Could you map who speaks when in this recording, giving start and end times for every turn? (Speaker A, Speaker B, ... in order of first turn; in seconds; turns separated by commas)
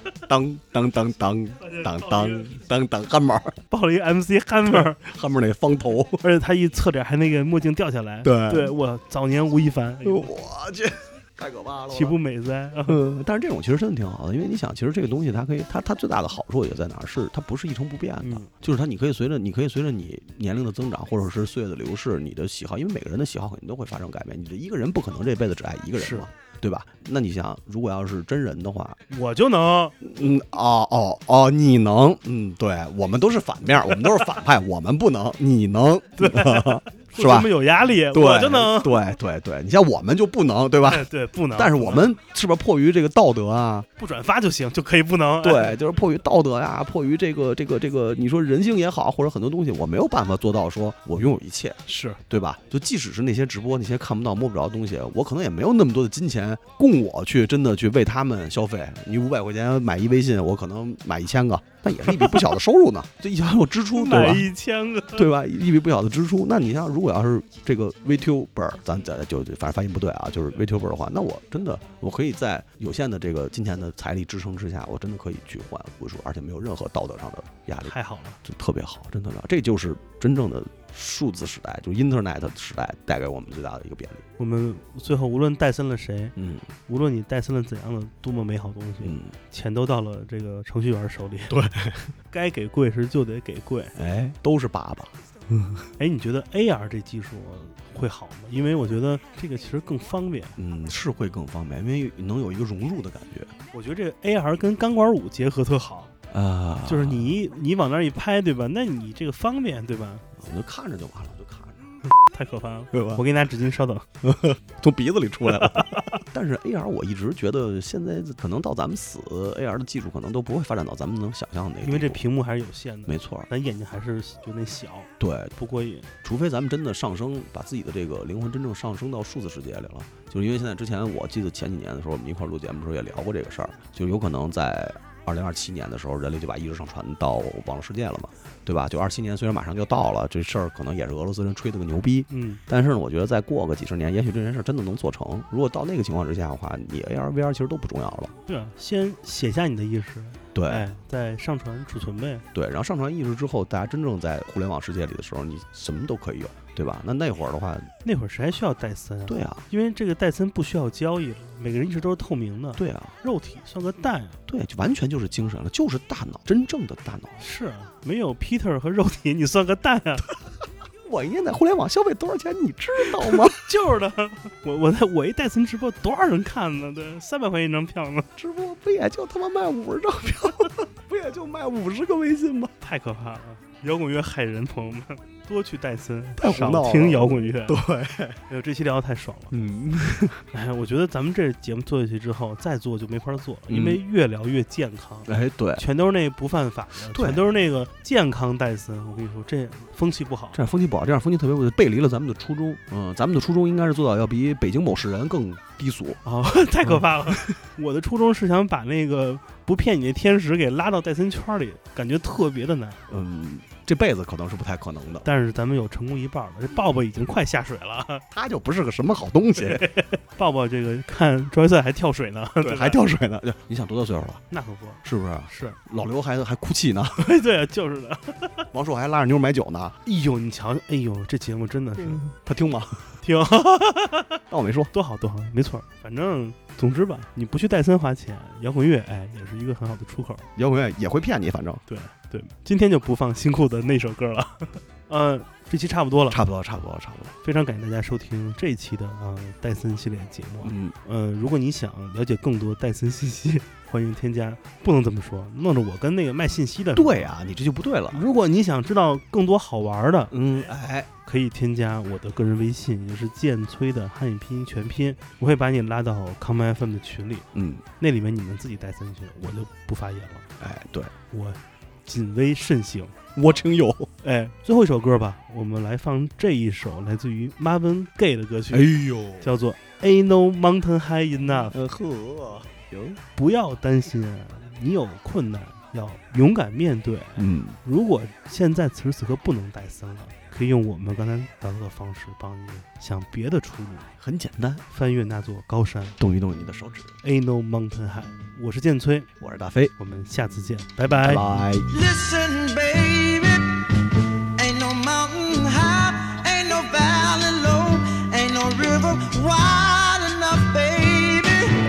Speaker A: 0.3-3.5, Speaker B: 1.6-2.5, Speaker B: 3.7-5.0, Speaker A: 4.7-6.2, Speaker B: 6.2-10.3, Speaker A: 8.2-8.7, Speaker A: 10.0-12.2, Speaker B: 11.9-13.0, Speaker A: 12.8-29.0, Speaker B: 18.2-18.5, Speaker B: 25.9-26.3, Speaker B: 29.1-29.9, Speaker A: 30.0-43.9, Speaker B: 36.2-39.0, Speaker B: 40.8-42.0, Speaker B: 44.0-45.8, Speaker A: 45.4-64.5, Speaker B: 51.9-52.2, Speaker B: 62.0-62.4, Speaker B: 63.9-65.3, Speaker A: 65.1-84.2, Speaker B: 77.8-78.4, Speaker B: 84.4-86.3, Speaker A: 86.3-86.7, Speaker B: 86.9-91.5, Speaker A: 89.0-89.3, Speaker A: 91.5-92.1, Speaker B: 92.3-93.9, Speaker A: 94.0-95.9, Speaker B: 96.0-100.5, Speaker A: 100.6-103.5, Speaker B: 103.7-106.1, Speaker A: 106.3-107.3, Speaker B: 106.8-110.2, Speaker A: 110.3-111.8, Speaker B: 112.1-114.1, Speaker A: 112.9-113.2, Speaker A: 114.2-122.2, Speaker B: 115.5-116.2, Speaker B: 121.8-126.1, Speaker A: 123.1-123.5, Speaker A: 125.2-125.5, Speaker A: 126.2-148.3, Speaker B: 142.3-142.6, Speaker B: 148.5-152.4, Speaker A: 150.5-150.9, Speaker A: 152.5-157.9, Speaker B: 158.0-164.4, Speaker A: 159.2-159.6, Speaker A: 162.8-163.1, Speaker A: 164.5-167.4, Speaker B: 167.4-170.3, Speaker A: 171.0-173.6, Speaker B: 173.0-178.3, Speaker A: 178.4-182.7, Speaker B: 182.8-187.8, Speaker A: 186.4-188.4, Speaker B: 188.5-189.5, Speaker A: 189.5-190.4, Speaker B: 190.5-200.6, Speaker A: 193.7-194.0, Speaker A: 195.2-195.8, Speaker A: 197.1-197.4, Speaker A: 200.5-206.2, Speaker B: 206.2-213.0, Speaker A: 206.8-207.6, Speaker A: 213.1-215.2, Speaker B: 215.2-218.2, Speaker A: 218.3-219.8, Speaker B: 219.6-223.0, Speaker A: 222.6-224.4, Speaker B: 224.5-225.8, Speaker A: 225.0-227.3, Speaker B: 227.2-228.6, Speaker A: 228.7-229.9, Speaker B: 230.0-232.3, Speaker A: 232.0-233.2, Speaker B: 233.2-234.4, Speaker A: 234.5-234.9, Speaker B: 234.9-240.5, Speaker A: 240.6-241.8, Speaker B: 241.9-246.4, Speaker A: 246.3-247.3, Speaker B: 247.4-257.3, Speaker A: 250.6-250.9, Speaker A: 256.9-258.2, Speaker B: 258.1-260.3, Speaker A: 260.3-261.1, Speaker B: 261.2-267.4, Speaker A: 267.5-267.8, Speaker B: 268.0-270.5, Speaker A: 270.6-271.1, Speaker B: 271.3-273.1, Speaker A: 273.3-274.1, Speaker B: 274.2-281.7, Speaker A: 278.7-279.5, Speaker A: 281.7-283.2, Speaker B: 283.3-294.1, Speaker A: 287.4-287.8, Speaker A: 294.2-294.8, Speaker B: 294.9-296.2, Speaker A: 296.2-297.1, Speaker B: 297.2-299.3, Speaker A: 299.4-299.9, Speaker B: 300.0-301.4, Speaker A: 301.2-301.9, Speaker C: 301.9-303.7, Speaker C: 304.6-311.7